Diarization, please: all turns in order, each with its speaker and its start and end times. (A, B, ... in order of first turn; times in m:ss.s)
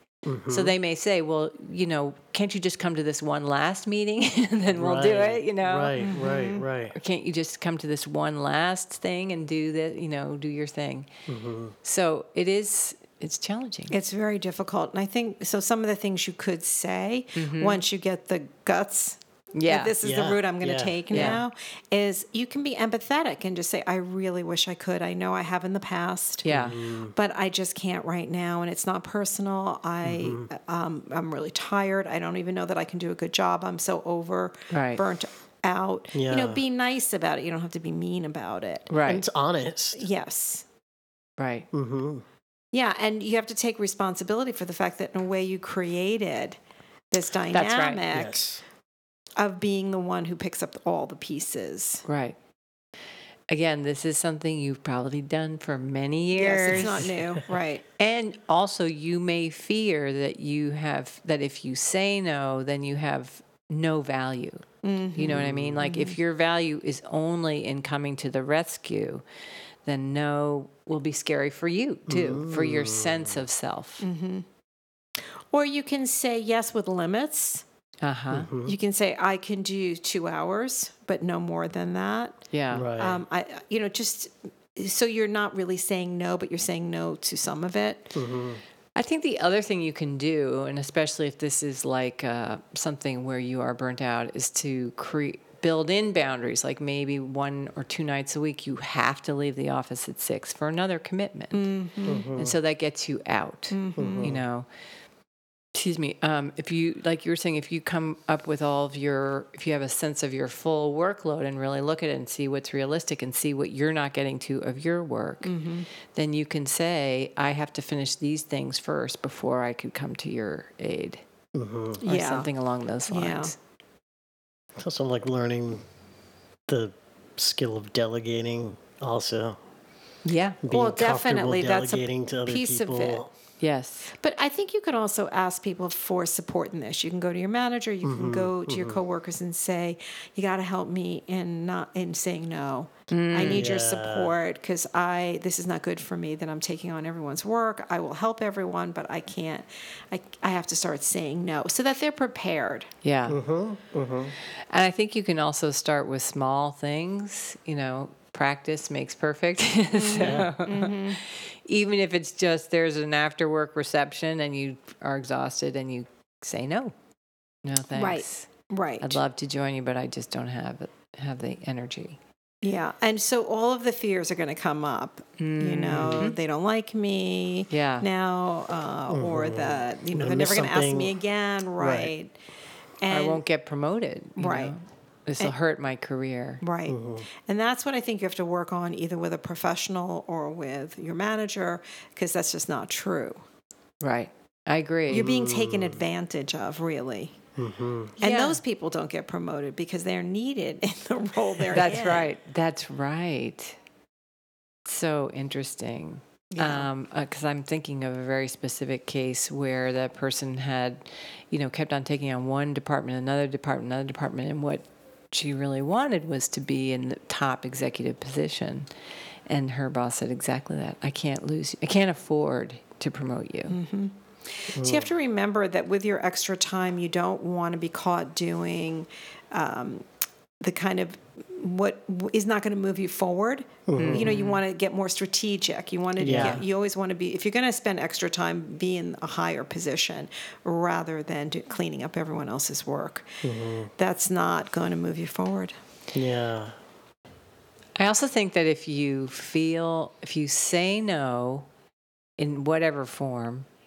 0:00.3-0:00.8 A
0:00.5-0:06.2 B
0:04.7-0:07.0 A
0:06.0-0:06.7 C
0:06.9-0:11.1 B
0:11.3-0:11.8 A
0:11.8-0:14.0 B
0:13.9-0:26.5 C
0:17.4-0:17.8 B
0:19.5-0:20.0 B
0:20.0-0:21.4 A
0:21.1-0:21.4 B
0:26.4-0:26.8 B
0:26.5-0:27.2 A
0:27.2-0:38.9 C
0:30.0-0:30.5 A
0:34.7-0:35.0 B
0:36.1-0:36.6 A
0:38.9-0:39.2 B
0:39.0-0:40.0 A
0:40.0-0:40.6 C
0:41.4-0:41.7 B
0:41.7-0:42.2 A
0:42.7-0:46.6 C
0:47.1-0:48.4 C
0:47.5-0:48.0 B
0:48.1-0:48.6 A
0:49.4-0:52.0 C
0:52.0-0:52.4 B
0:53.5-0:57.1 B
0:56.3-0:57.8 C
0:58.0-1:09.2 B
1:04.8-1:06.2 C
1:05.2-1:05.9 A
1:09.8-1:14.1 B
1:12.1-1:13.4 A
1:14.0-1:14.4 C
1:15.5-1:17.6 C
1:18.0-1:18.5 B
1:18.3-1:18.7 A
1:18.7-1:22.4 C
1:22.5-1:22.9 B
1:22.7-1:23.2 A
1:23.0-1:28.1 C
1:28.2-1:28.6 A
1:29.0-1:44.7 B
1:41.5-1:42.3 C
1:42.1-1:42.6 A
1:43.7-1:44.4 C
1:44.0-1:44.4 A
1:45.7-1:55.6 B
1:55.4-1:55.9 C
1:56.1-2:01.2 B
2:01.6-2:02.0 A
2:02.0-2:02.5 C
2:02.0-2:03.6 B
2:03.1-2:03.6 C
2:04.8-2:05.8 A
2:06.7-2:09.6 A
2:10.2-2:10.6 B
2:10.6-2:13.3 A
2:10.8-2:13.2 C
2:13.6-2:14.1 B
2:14.1-2:32.9 C
2:18.0-2:19.0 A
2:23.1-2:23.8 B
2:23.4-2:24.3 A
2:33.0-2:33.4 B
2:33.3-2:34.4 A
2:34.7-2:46.9 B
2:39.9-2:41.2 C
2:40.2-2:40.5 A
2:47.6-2:48.5 B
2:48.0-2:49.2 C
2:49.0-2:52.2 B
2:52.6-3:02.3 C
2:55.4-2:56.4 B
2:56.0-2:56.3 A
2:57.7-2:58.1 B
2:59.1-3:01.1 A
3:01.8-3:02.1 A
3:03.0-3:03.4 C
3:03.1-3:06.6 B
3:04.4-3:04.8 C
3:06.6-3:13.4 C
3:06.9-3:07.3 A
3:14.0-3:15.3 B
3:15.1-3:16.0 A
3:15.1-3:17.4 C
3:17.6-3:18.2 A
3:18.2-3:22.4 C
3:18.2-3:18.6 B
3:21.7-3:23.8 B
3:24.9-3:38.9 B
3:26.5-3:26.9 C
3:39.5-3:43.8 B
3:43.7-3:50.0 C
3:44.7-3:45.1 A
3:50.6-4:03.4 C
3:53.9-3:54.3 A
3:54.0-3:54.6 B
3:56.2-3:56.6 A
3:56.2-3:56.6 B
4:03.4-4:03.9 A
4:04.0-4:05.8 C
4:06.1-4:06.8 A
4:08.0-4:11.7 B
4:12.4-4:13.7 B